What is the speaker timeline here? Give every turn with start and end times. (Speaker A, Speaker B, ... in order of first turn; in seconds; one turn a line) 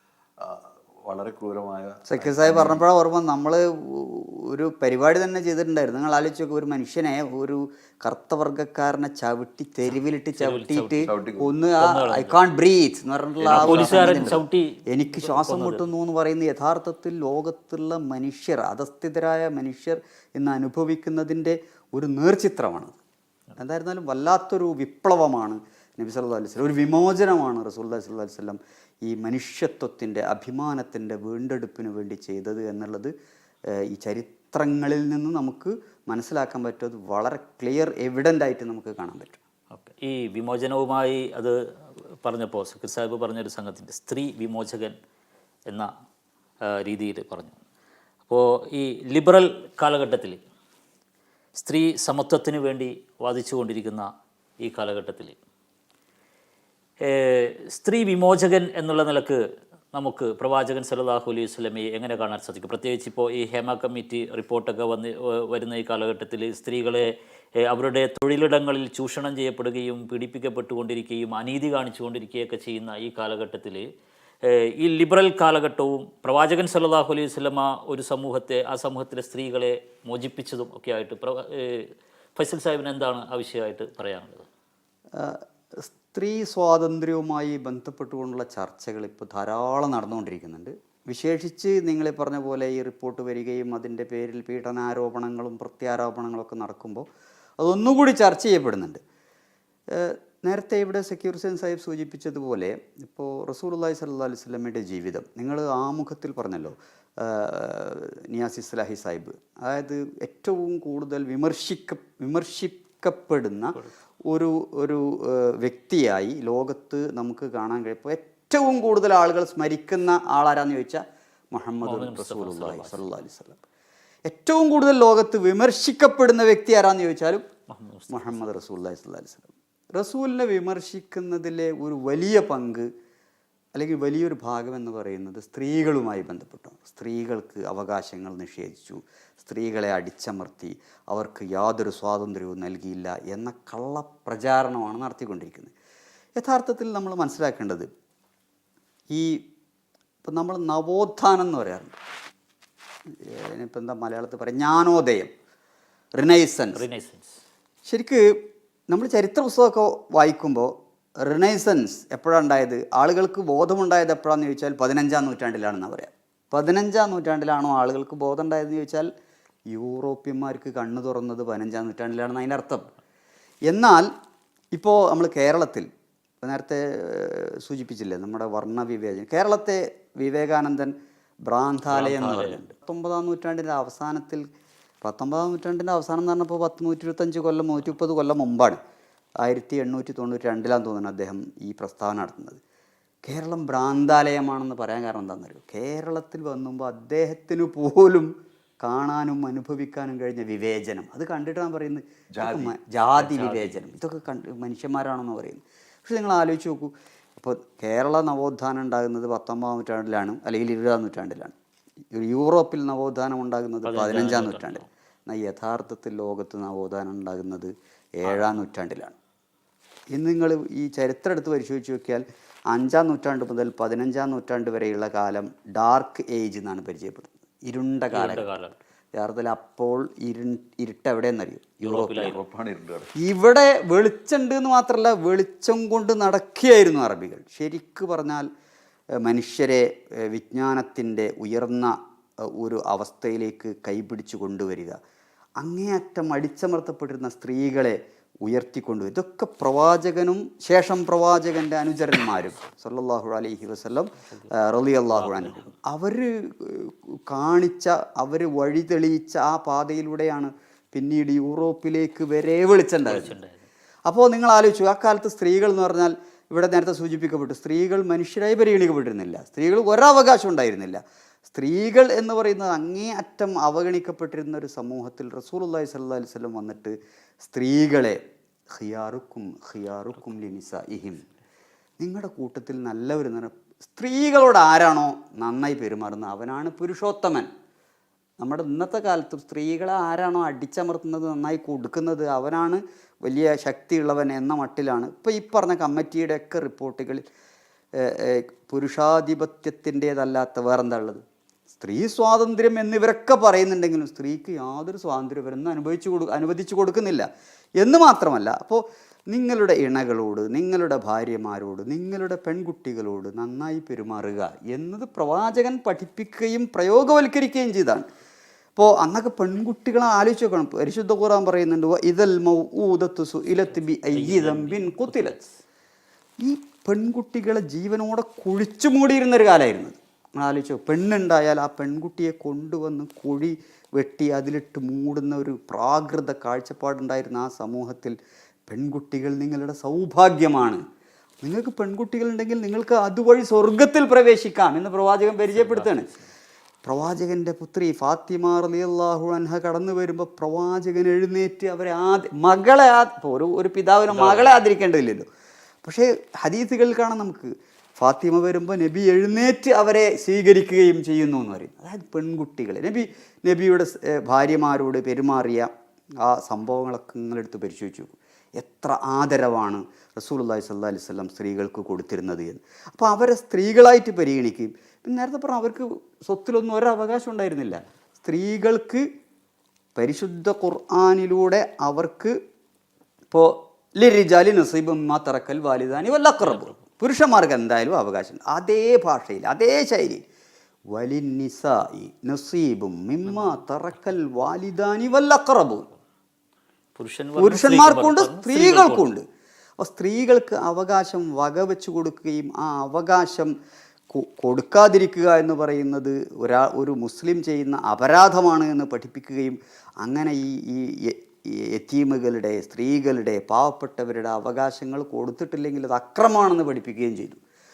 Speaker A: 0.4-2.8
Speaker B: 2.1-23.0
Speaker C: 10.4-11.1
Speaker A: 11.0-11.6
Speaker C: 11.8-12.3
Speaker C: 13.4-15.9
Speaker A: 13.5-14.0
Speaker B: 23.6-33.1
Speaker B: 33.7-39.4
Speaker C: 39.7-41.6
Speaker C: 42.2-45.0
Speaker C: 46.7-47.6
Speaker C: 48.3-50.4
Speaker C: 51.6-54.1
Speaker C: 54.6-55.4
Speaker C: 57.0-59.4
Speaker C: 59.9-73.9
Speaker C: 74.4-84.5
Speaker B: 85.1-97.1
Speaker B: 97.6-99.0
Speaker B: 99.9-123.6
Speaker C: 121.8-123.0
Speaker B: 124.3-127.4
Speaker C: 127.7-128.5
Speaker B: 128.1-132.9
Speaker B: 133.7-145.7
Speaker B: 146.4-147.9
Speaker B: 149.1-149.4
Speaker B: 150.2-152.0
Speaker B: 153.1-155.3
Speaker B: 156.2-156.8
Speaker C: 156.7-157.4
Speaker B: 157.9-169.1
Speaker B: 169.7-172.9
Speaker B: 173.7-174.1
Speaker B: 174.7-175.9
Speaker B: 176.4-184.5
Speaker C: 181.9-182.6
Speaker B: 185.0-188.8
Speaker B: 189.4-192.6
Speaker B: 193.2-211.5
Speaker A: 202.4-202.8
Speaker C: 203.2-203.9
Speaker B: 212.1-219.2
Speaker C: 213.8-214.8
Speaker C: 218.2-218.5
Speaker B: 220.1-228.5
Speaker C: 228.1-228.8
Speaker B: 229.2-232.3
Speaker C: 231.8-232.4
Speaker A: 232.2-233.1
Speaker B: 233.2-238.5
Speaker B: 239.2-245.0
Speaker B: 245.6-263.4
Speaker C: 255.1-255.7
Speaker C: 263.1-263.7
Speaker B: 264.1-281.2
Speaker B: 282.0-287.5
Speaker B: 288.4-297.2
Speaker B: 297.9-301.2
Speaker B: 301.8-318.1
Speaker B: 318.8-325.4
Speaker C: 324.1-325.6
Speaker B: 326.4-338.2
Speaker B: 338.7-340.8
Speaker B: 341.4-346.1
Speaker C: 345.5-346.3
Speaker B: 346.9-355.3
Speaker C: 354.1-354.5
Speaker B: 355.8-379.1
Speaker B: 380.0-382.4
Speaker B: 383.3-390.2
Speaker C: 386.4-386.8
Speaker B: 390.9-395.9
Speaker C: 397.0-399.1
Speaker B: 397.4-399.2
Speaker B: 399.8-403.6
Speaker B: 404.1-417.4